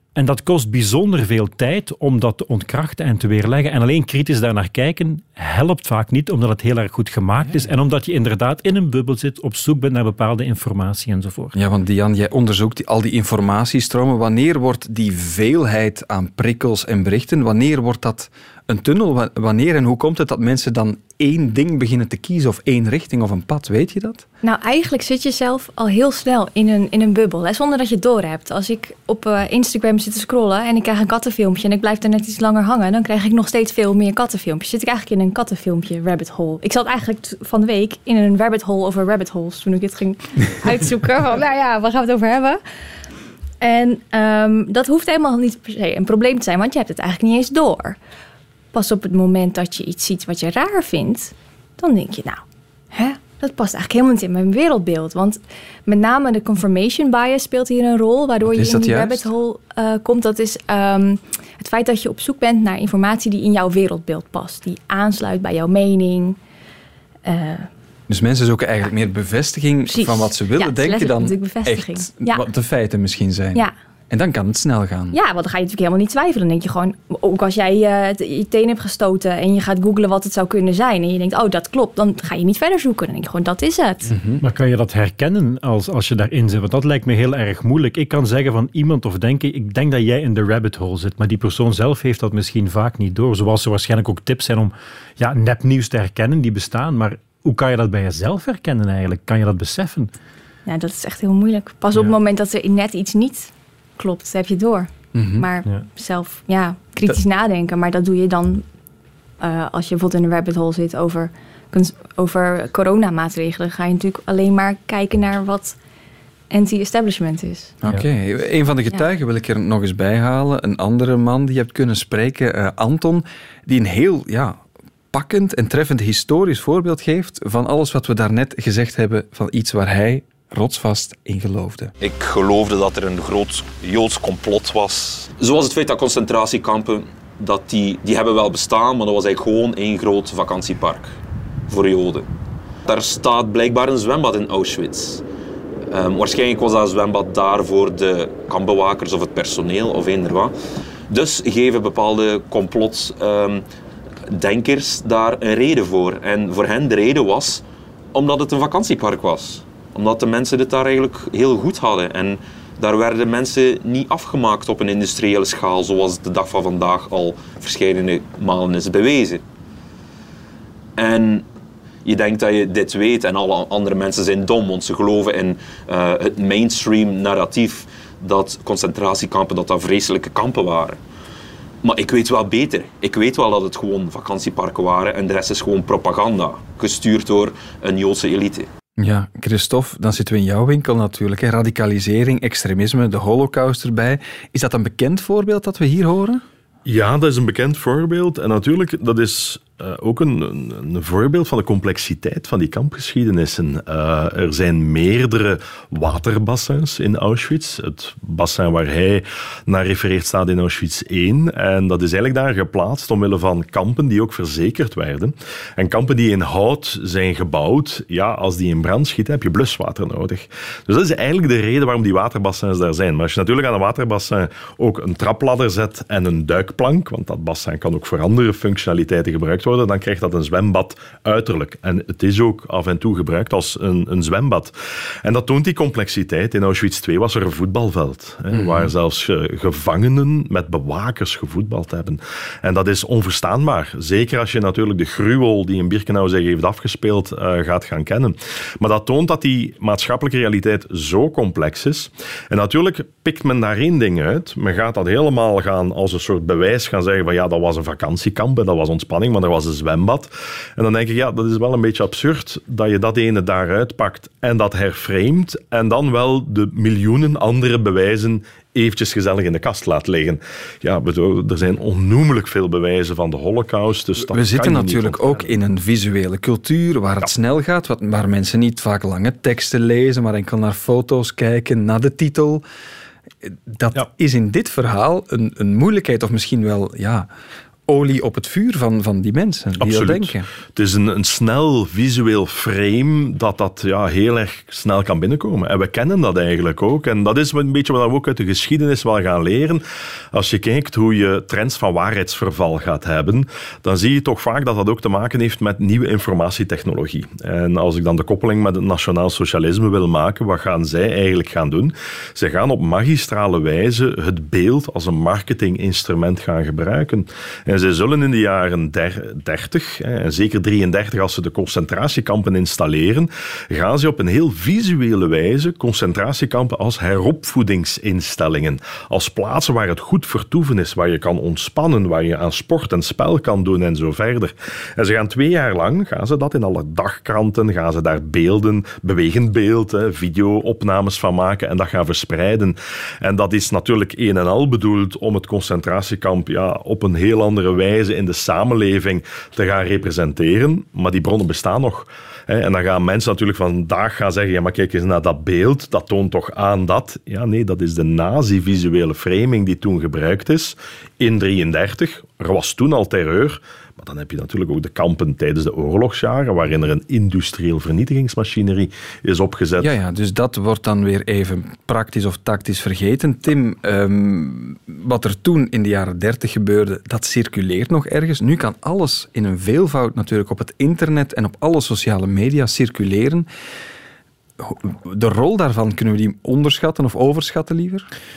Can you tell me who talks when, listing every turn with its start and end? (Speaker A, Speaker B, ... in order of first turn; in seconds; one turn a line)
Speaker A: 0.1-11.5
Speaker B: 11.5-24.2
Speaker C: 24.4-42.6
Speaker C: 43.6-48.0
Speaker C: 48.7-52.4
Speaker C: 52.9-66.4
Speaker B: 58.4-59.2
Speaker C: 67.2-67.7
Speaker B: 68.1-75.2
Speaker C: 69.9-72.4
Speaker C: 75.1-84.1
Speaker B: 84.1-84.4
Speaker A: 84.4-100.1
Speaker C: 100.7-108.6
Speaker B: 105.1-105.5
Speaker C: 109.4-115.8
Speaker C: 116.5-117.7
Speaker B: 117.8-124.6
Speaker B: 125.1-131.9
Speaker D: 132.0-141.1
Speaker D: 141.7-142.3
Speaker D: 142.8-145.2
Speaker D: 145.9-150.5
Speaker D: 151.1-153.6
Speaker D: 154.3-157.6
Speaker D: 158.1-169.4
Speaker D: 171.0-171.4
Speaker D: 172.0-181.0
Speaker D: 181.8-188.7
Speaker B: 189.0-196.4
Speaker E: 196.8-234.7
Speaker E: 235.2-275.5
Speaker B: 238.5-238.9
Speaker B: 274.2-282.6
Speaker B: 283.4-287.3
Speaker B: 287.9-290.5
Speaker E: 289.8-299.8
Speaker E: 300.3-369.9
Speaker B: 369.8-383.5
Speaker B: 384.6-388.1